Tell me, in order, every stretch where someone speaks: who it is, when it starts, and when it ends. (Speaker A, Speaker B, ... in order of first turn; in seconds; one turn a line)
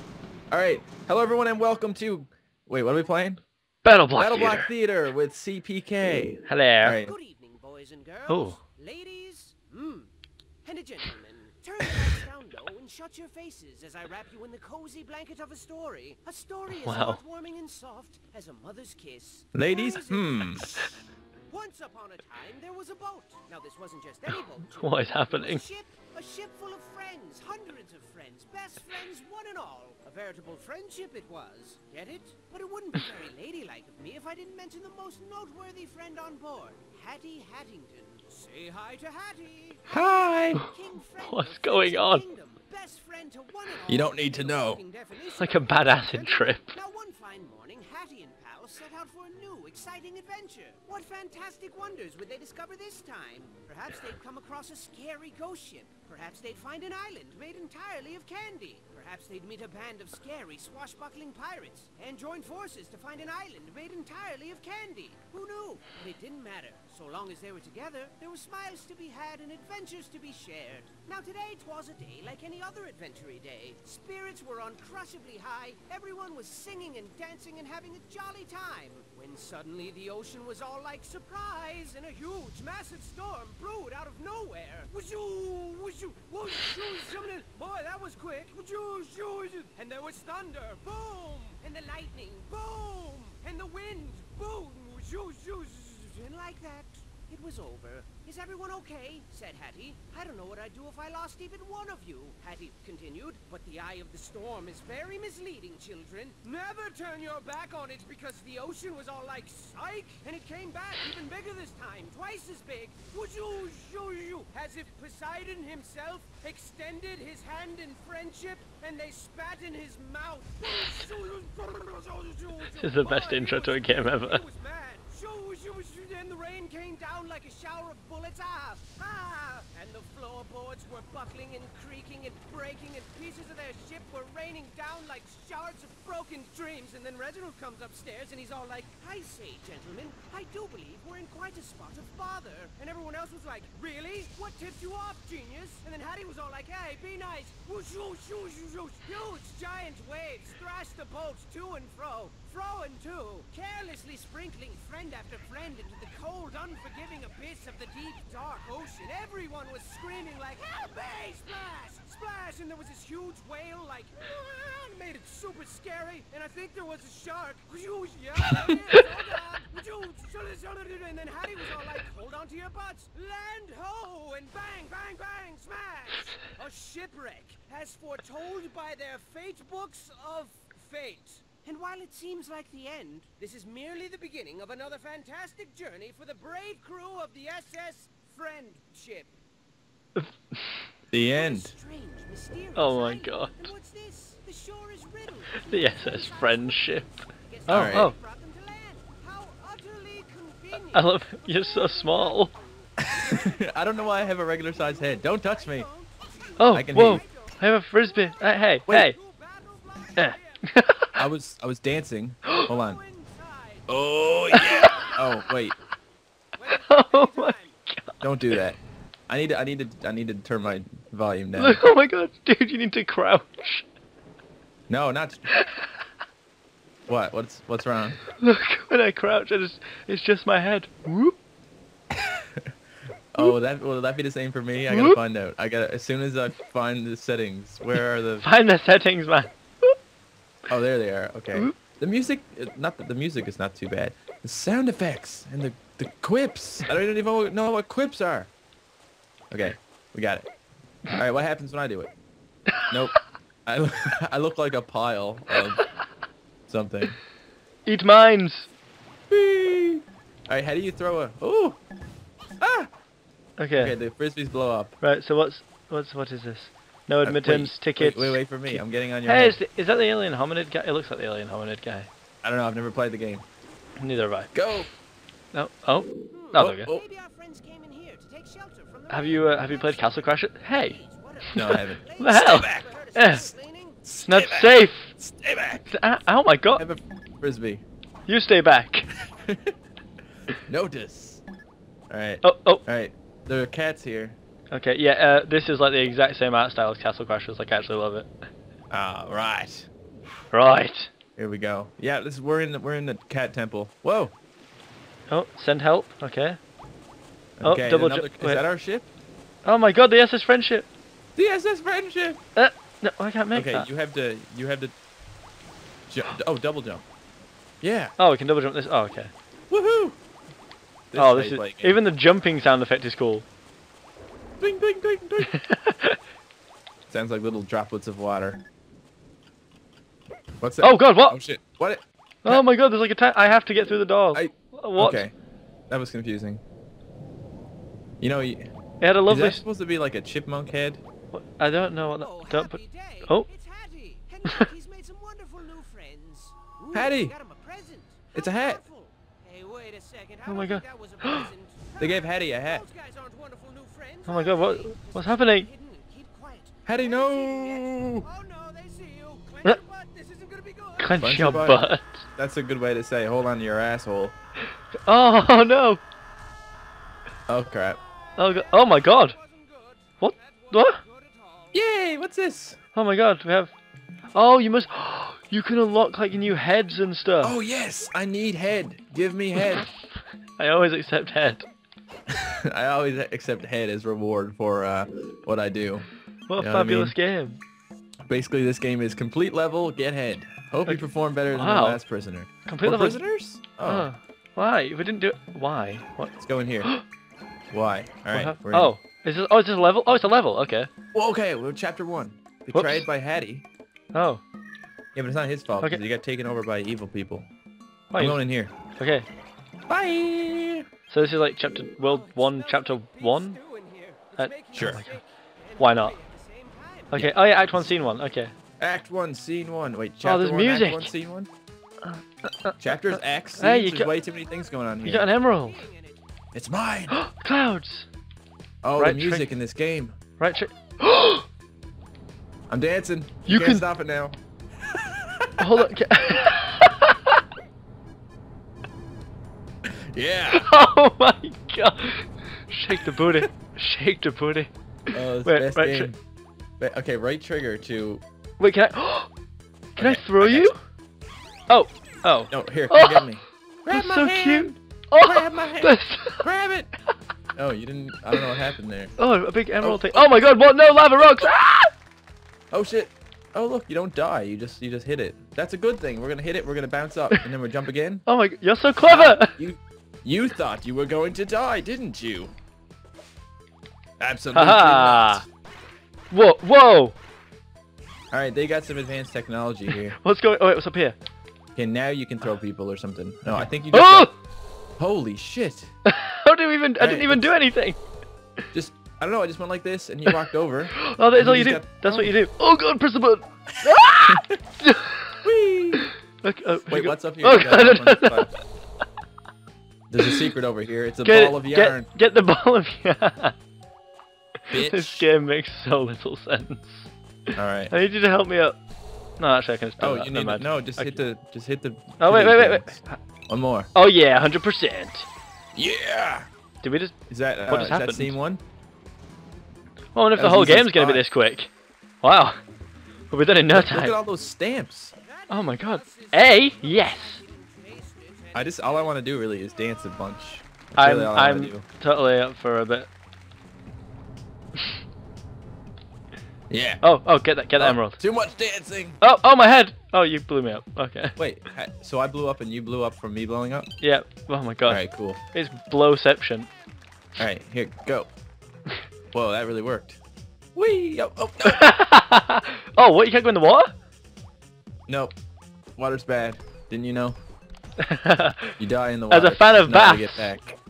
Speaker A: 0.5-3.4
Speaker B: 3.8-4.7
Speaker A: 4.2-7.1
Speaker B: 6.4-7.0
Speaker C: 7.0-10.1
Speaker B: 8.3-8.6
Speaker C: 10.6-20.9
Speaker B: 16.8-17.2
Speaker A: 19.5-20.9
Speaker B: 20.6-20.9
Speaker C: 21.5-189.3
Speaker B: 24.7-25.6
Speaker A: 39.9-40.6
Speaker B: 40.5-42.2
Speaker A: 43.9-44.8
Speaker B: 45.4-46.8
Speaker B: 122.7-124.4
Speaker B: 168.7-169.1
Speaker B: 190.2-190.8
Speaker A: 191.1-191.7
Speaker C: 191.3-207.6
Speaker B: 192.8-193.7
Speaker B: 195.6-197.1
Speaker B: 197.7-198.1
Speaker A: 197.7-198.1
Speaker B: 200.9-202.5
Speaker A: 203.0-205.8
Speaker B: 206.6-209.2
Speaker A: 206.7-207.2
Speaker C: 209.0-210.6
Speaker B: 210.2-211.2
Speaker A: 211.2-213.0
Speaker C: 212.7-213.9
Speaker A: 213.9-215.8
Speaker C: 214.5-215.2
Speaker B: 214.5-215.2
Speaker C: 216.6-217.8
Speaker B: 216.7-218.1
Speaker A: 218.2-218.8
Speaker A: 219.3-221.8
Speaker B: 221.6-223.8
Speaker A: 224.9-225.5
Speaker B: 225.5-225.9
Speaker A: 227.1-228.2
Speaker B: 228.4-231.3
Speaker A: 232.1-232.7
Speaker A: 233.3-238.4
Speaker B: 234.9-235.2
Speaker B: 238.4-239.9
Speaker A: 240.7-248.5
Speaker A: 249.5-250.5
Speaker A: 251.1-252.1
Speaker A: 252.9-255.8
Speaker A: 256.7-257.2
Speaker B: 257.9-258.7
Speaker A: 259.3-261.8
Speaker A: 262.6-262.9
Speaker B: 263.6-263.9
Speaker A: 263.7-265.0
Speaker B: 265.0-272.1
Speaker A: 267.2-269.6
Speaker A: 272.4-273.4
Speaker B: 274.0-274.7
Speaker A: 274.5-274.9
Speaker B: 275.5-276.9
Speaker C: 276.3-284.1
Speaker A: 276.6-277.0
Speaker B: 279.1-283.5
Speaker A: 281.5-282.9
Speaker A: 284.0-285.9
Speaker B: 284.2-285.1
Speaker B: 285.9-286.8
Speaker A: 286.8-287.8
Speaker B: 288.3-289.1
Speaker A: 289.4-289.7
Speaker A: 290.6-291.4
Speaker A: 292.1-294.4
Speaker B: 292.4-292.8
Speaker B: 294.7-298.3
Speaker A: 298.9-299.9
Speaker B: 300.5-301.1
Speaker A: 301.4-304.3
Speaker B: 305.3-306.6
Speaker A: 307.6-309.1
Speaker B: 307.6-308.6
Speaker B: 309.6-310.9
Speaker A: 311.4-312.4
Speaker B: 312.6-313.9
Speaker A: 313.5-314.9
Speaker A: 316.1-317.0
Speaker A: 317.8-318.1
Speaker B: 318.2-319.3
Speaker A: 319.7-320.2
Speaker A: 321.1-322.0
Speaker B: 321.1-323.4
Speaker A: 324.6-325.5
Speaker B: 325.4-326.2
Speaker A: 327.1-328.6
Speaker A: 330.6-332.6
Speaker B: 330.8-331.4
Speaker B: 332.4-335.2
Speaker A: 334.3-335.3
Speaker A: 335.9-336.6
Speaker A: 338.2-338.7
Speaker B: 339.0-339.6
Speaker A: 339.3-341.0
Speaker B: 341.3-343.5
Speaker C: 342.2-362.0
Speaker A: 346.9-347.3
Speaker A: 348.3-348.8
Speaker B: 350.4-351.5
Speaker A: 352.0-352.8
Speaker B: 354.2-355.7
Speaker A: 356.9-358.2
Speaker B: 361.0-362.2
Speaker A: 361.2-361.8
Speaker A: 362.4-364.3
Speaker B: 365.1-366.0
Speaker A: 367.5-368.0
Speaker C: 368.2-371.8
Speaker B: 368.4-369.4
Speaker B: 370.2-371.0
Speaker A: 371.7-372.8
Speaker B: 372.9-373.7
Speaker B: 374.3-377.6
Speaker A: 377.4-379.9
Speaker B: 380.6-381.6
Speaker A: 382.3-387.1
Speaker B: 386.5-387.6
Speaker A: 388.3-394.1
Speaker B: 390.9-392.0
Speaker B: 392.6-393.2
Speaker B: 393.8-397.0
Speaker A: 396.4-396.9
Speaker A: 397.7-398.9
Speaker B: 398.3-400.9
Speaker A: 401.1-403.6
Speaker B: 402.7-403.1
Speaker B: 404.1-404.4
Speaker A: 405.1-407.5
Speaker B: 408.1-408.4
Speaker A: 408.1-408.7
Speaker B: 409.0-409.3
Speaker A: 409.9-410.9
Speaker B: 411.1-413.6
Speaker C: 411.9-417.3
Speaker B: 414.4-415.2
Speaker A: 414.7-415.1
Speaker B: 415.8-416.1
Speaker B: 417.1-418.5
Speaker A: 418.8-421.5
Speaker B: 420.2-421.1
Speaker B: 422.1-424.1
Speaker A: 422.8-425.3
Speaker B: 425.0-425.9
Speaker C: 425.3-426.2
Speaker A: 426.5-427.2
Speaker B: 427.1-428.1
Speaker A: 428.8-430.1
Speaker B: 429.0-429.5
Speaker B: 430.4-431.4
Speaker A: 432.7-434.4
Speaker B: 433.4-433.9
Speaker A: 434.9-435.9
Speaker B: 435.6-437.4
Speaker A: 439.9-440.7
Speaker B: 440.5-446.1
Speaker A: 445.1-446.2
Speaker A: 446.8-448.2
Speaker B: 448.6-449.3
Speaker B: 449.9-450.8
Speaker A: 450.0-450.7
Speaker B: 451.7-453.3
Speaker A: 452.5-456.9
Speaker B: 453.9-456.4
Speaker A: 457.5-459.1
Speaker B: 459.2-461.9
Speaker A: 459.8-460.4
Speaker A: 462.7-468.2
Speaker B: 468.3-469.6
Speaker A: 469.0-472.5
Speaker A: 474.2-475.4
Speaker B: 474.5-475.4
Speaker B: 476.3-477.1
Speaker A: 478.3-480.1
Speaker B: 479.9-481.1
Speaker A: 481.8-484.3
Speaker B: 483.6-484.3
Speaker A: 485.0-485.9
Speaker B: 486.1-488.0
Speaker A: 487.0-487.5
Speaker A: 488.7-492.3
Speaker B: 490.9-495.4
Speaker A: 493.7-494.6
Speaker A: 495.4-496.1
Speaker B: 496.0-498.5
Speaker A: 496.9-498.5
Speaker A: 500.1-502.1
Speaker B: 501.2-503.5
Speaker B: 504.7-507.1
Speaker A: 504.7-505.3
Speaker A: 507.5-507.9
Speaker B: 507.9-508.8
Speaker B: 509.4-511.2
Speaker A: 510.0-513.9
Speaker B: 512.2-513.2
Speaker B: 513.9-515.3
Speaker A: 515.7-516.5
Speaker B: 516.8-518.4
Speaker A: 517.3-518.6
Speaker B: 520.1-521.7
Speaker A: 520.4-521.2
Speaker B: 522.2-522.6
Speaker B: 523.3-524.2
Speaker A: 523.7-525.1
Speaker C: 525.2-528.9
Speaker B: 525.5-527.4
Speaker A: 528.5-531.8
Speaker B: 531.0-533.1
Speaker A: 536.7-537.0
Speaker B: 537.0-538.2
Speaker A: 537.8-539.2
Speaker B: 539.2-541.4
Speaker A: 541.4-543.9
Speaker B: 544.0-546.7
Speaker A: 544.9-545.4
Speaker A: 547.4-548.3
Speaker A: 549.3-550.2
Speaker A: 550.7-552.0
Speaker B: 551.6-553.9
Speaker A: 555.1-555.3
Speaker A: 556.0-557.4
Speaker B: 558.0-558.8
Speaker A: 558.8-560.8
Speaker B: 559.3-560.5